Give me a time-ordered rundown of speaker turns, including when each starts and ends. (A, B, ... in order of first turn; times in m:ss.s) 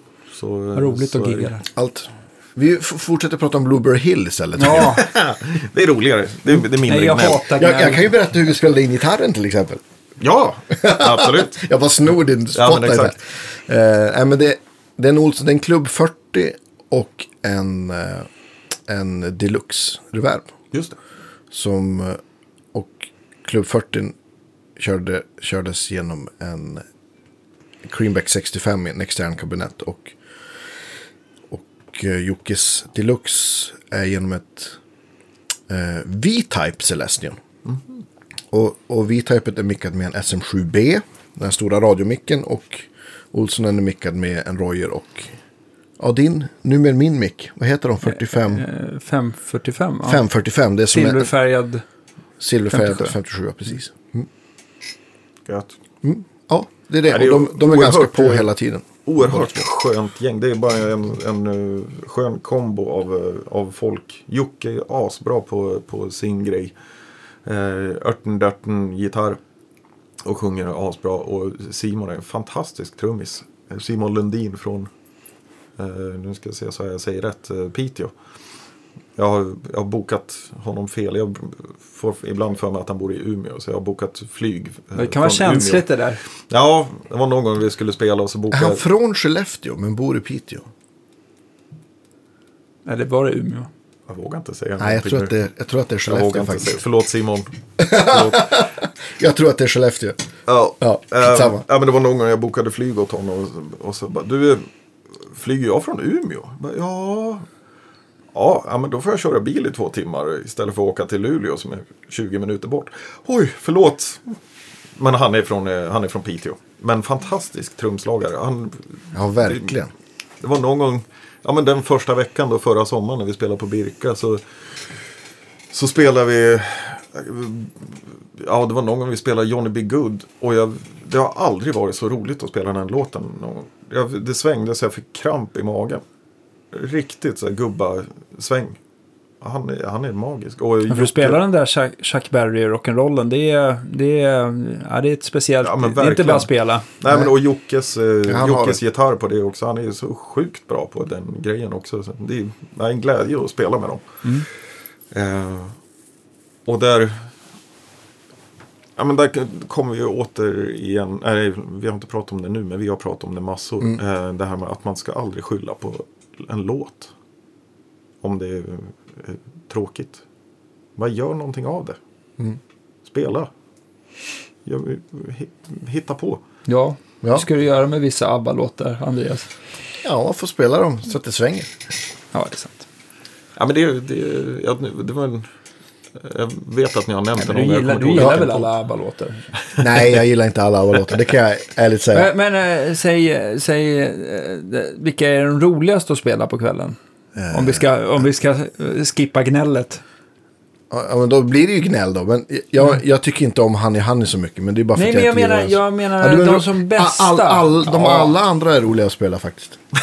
0:00.3-0:01.5 A
0:00.7-0:01.6 B
0:01.7-0:05.1 C
0:04.6-0:05.1 B
0:04.8-0:07.4 A
0:06.5-0:08.1 B
0:07.6-0:09.8 C
0:10.2-0:11.6 A
0:10.7-0:18.3 C
0:12.6-0:13.2 A
0:18.9-0:20.5 C
0:20.7-0:21.0 A
0:21.5-0:22.2 C
0:22.7-0:24.1 C
0:24.8-0:26.8 C
0:27.8-0:30.2 C
0:31.5-0:34.8 C
0:35.7-0:37.4 C
0:37.6-0:38.0 A
0:38.5-0:45.4 C
0:46.0-0:48.6 C
0:48.0-0:50.2 B
0:50.0-0:51.3 C
0:50.9-0:51.8 B
0:52.4-0:54.3 C
0:52.7-0:53.1 B
0:55.4-0:55.8 A
0:56.0-0:59.6 C
0:57.1-0:58.5 A
0:59.0-1:06.7 A
1:07.4-1:09.4 A
1:10.2-1:14.9 A
1:15.8-1:18.1 A
1:19.2-1:25.9 A
1:25.0-1:26.2 B
1:26.5-1:28.8 A
1:28.5-1:30.6 C
1:32.8-1:33.7 B
1:34.1-1:35.3 A
1:34.8-1:36.7 C
1:36.1-1:38.5 A
1:37.8-1:40.2 C
1:40.5-1:44.6 A
1:40.8-1:41.6 C
1:45.2-1:47.4 A
1:48.3-1:54.4 A
1:55.0-1:59.7 A
1:59.1-1:59.9 C
2:00.4-2:04.4 A
2:05.7-2:16.0 A
2:16.7-2:18.8 A
2:19.4-2:21.4 A
2:20.9-2:26.9 B
2:25.6-2:34.2 A
2:27.0-2:27.3 C
2:28.3-2:28.8 C
2:35.1-2:35.8 A
2:36.6-2:37.3 A
2:39.0-2:47.1 A
2:48.2-2:50.2 A
2:51.0-2:52.0 A
2:53.0-2:53.5 A
2:54.6-2:56.4 A
2:56.7-2:59.5 B
3:00.0-3:01.7 C
3:02.3-3:02.8 B
3:03.6-3:05.4 A
3:06.1-3:08.7 A
3:07.4-3:09.5 B
3:08.2-3:08.4 C
3:09.7-3:10.1 A
3:09.8-3:12.3 C
3:12.1-3:17.0 B
3:17.4-3:17.8 C
3:17.5-3:20.0 B
3:20.9-3:29.8 C
3:24.9-3:28.3 B